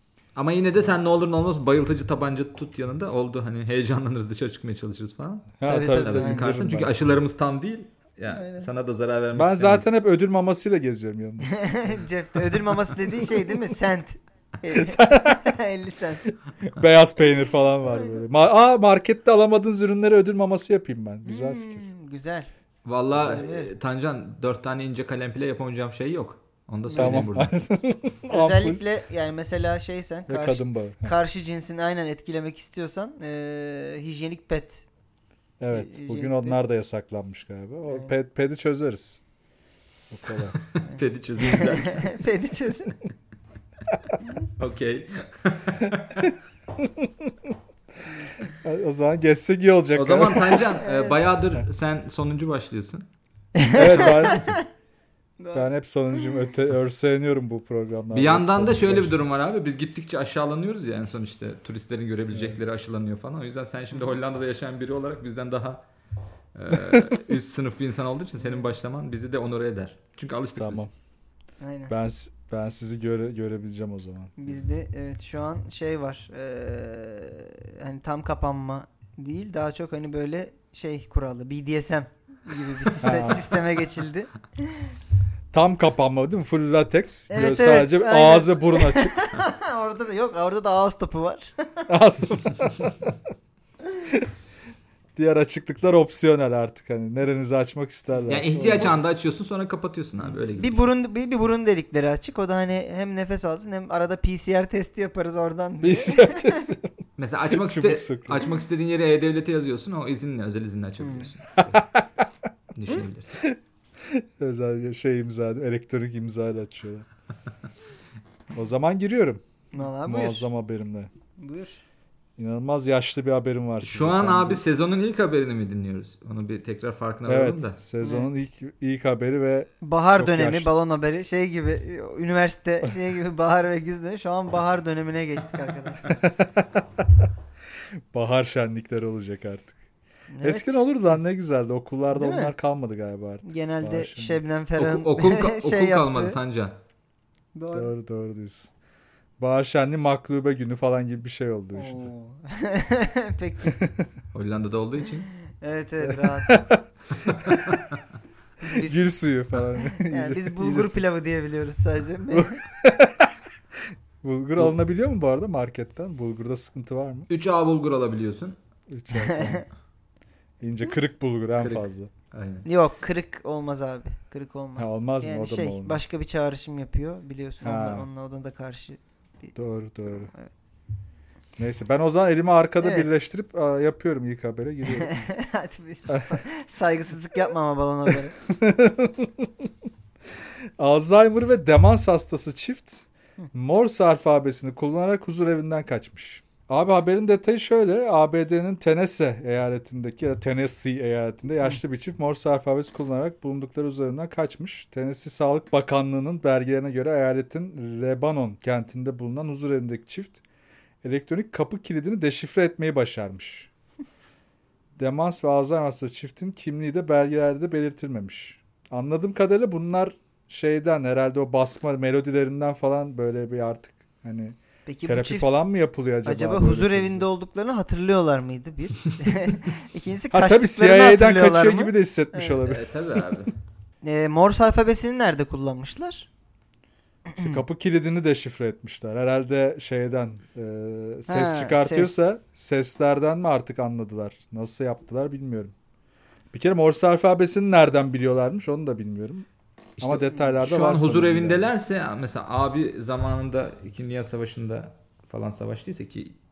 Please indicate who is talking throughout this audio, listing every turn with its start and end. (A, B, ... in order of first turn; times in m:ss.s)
0:00.3-0:09.9 A
0:05.6-0:07.2 B
0:05.6-0:06.5 C
0:08.3-0:08.7 C
0:09.3-0:11.9 B
0:11.4-0:16.2 C
0:12.7-0:13.6 B
0:14.7-0:15.6 B
0:16.6-0:21.8 B
0:17.9-0:18.2 C
0:21.2-0:22.5 C
0:22.8-0:27.5 A
0:23.1-0:23.7 C
0:26.9-0:27.3 C
0:26.9-0:28.8 B
0:28.3-0:34.8 C
0:30.3-0:31.1 B
0:35.6-0:39.2 B
0:35.7-0:36.6 C
0:37.9-0:38.1 C
0:40.1-0:40.6 B
0:40.7-0:42.1 A
0:40.8-0:43.0 C
0:44.6-0:45.8 A
0:45.8-0:47.6 B
0:48.1-0:48.3 C
0:48.5-0:50.7 B
0:49.9-0:53.0 A
0:50.8-0:51.2 C
0:53.5-0:54.6 C
0:53.7-0:54.6 B
0:55.4-0:56.4 C
0:55.5-0:59.2 B
0:58.1-1:05.8 A
1:02.3-1:02.6 B
1:06.5-1:10.8 A
1:08.4-1:08.7 C
1:10.6-1:10.9 B
1:11.6-1:11.9 C
1:11.9-1:14.6 B
1:14.4-1:24.9 C
1:23.0-1:23.5 B
1:25.5-1:29.2 B
1:27.3-1:31.9 C
1:31.9-1:33.1 B
1:35.1-1:39.0 B
1:38.3-1:40.8 A
1:40.5-1:46.7 C
1:45.8-1:48.5 B
1:47.2-1:51.8 A
1:51.0-1:51.3 C
1:51.6-1:52.0 B
1:52.7-1:53.4 A
1:53.4-1:57.1 B
1:58.5-2:01.1 B
1:59.7-2:00.5 C
2:01.4-2:01.8 C
2:02.4-2:04.6 B
2:03.8-2:07.8 A
2:07.2-2:10.7 B
2:08.0-2:08.3 C
2:09.8-2:16.2 C
2:16.1-2:17.3 B
2:18.1-2:19.8 B
2:20.3-2:20.8 C
2:20.4-2:24.4 B
2:22.1-2:22.5 C
2:23.4-2:26.4 C
2:24.8-2:26.8 A
2:27.6-2:27.9 C
2:27.7-2:28.7 B
2:29.4-2:32.1 B
2:31.7-2:33.8 C
2:33.7-2:34.1 B
2:34.3-2:35.3 A
2:35.5-2:36.6 C
2:36.0-2:37.8 B
2:37.3-2:37.8 A
2:38.6-2:39.1 C
2:38.8-2:41.0 B
2:39.8-2:42.6 C
2:42.3-2:43.3 B
2:44.2-2:47.3 B
2:47.3-2:48.6 A
2:48.9-2:49.6 B
2:49.1-2:49.6 C
2:50.6-2:52.1 B
2:51.6-2:52.7 A
2:52.6-2:59.5 C
2:54.8-2:56.0 B
2:57.6-2:58.1 B
2:59.5-3:00.3 B
3:01.6-3:05.2 B
3:02.8-3:03.1 C
3:04.9-3:08.3 C
3:06.1-3:06.4 B
3:08.4-3:09.7 B
3:10.8-3:30.4 B
3:31.0-3:33.7 B
3:35.0-3:47.3 B
3:44.8-3:45.6 C
3:46.2-3:52.6 C
3:50.3-3:53.5 B
3:52.6-3:53.5 A
3:54.0-3:56.3 C
3:57.3-3:57.6 C
3:57.4-4:05.7 B
4:01.3-4:02.2 C
4:06.5-4:09.5 B
4:10.0-4:16.3 A
4:10.0-4:11.7 B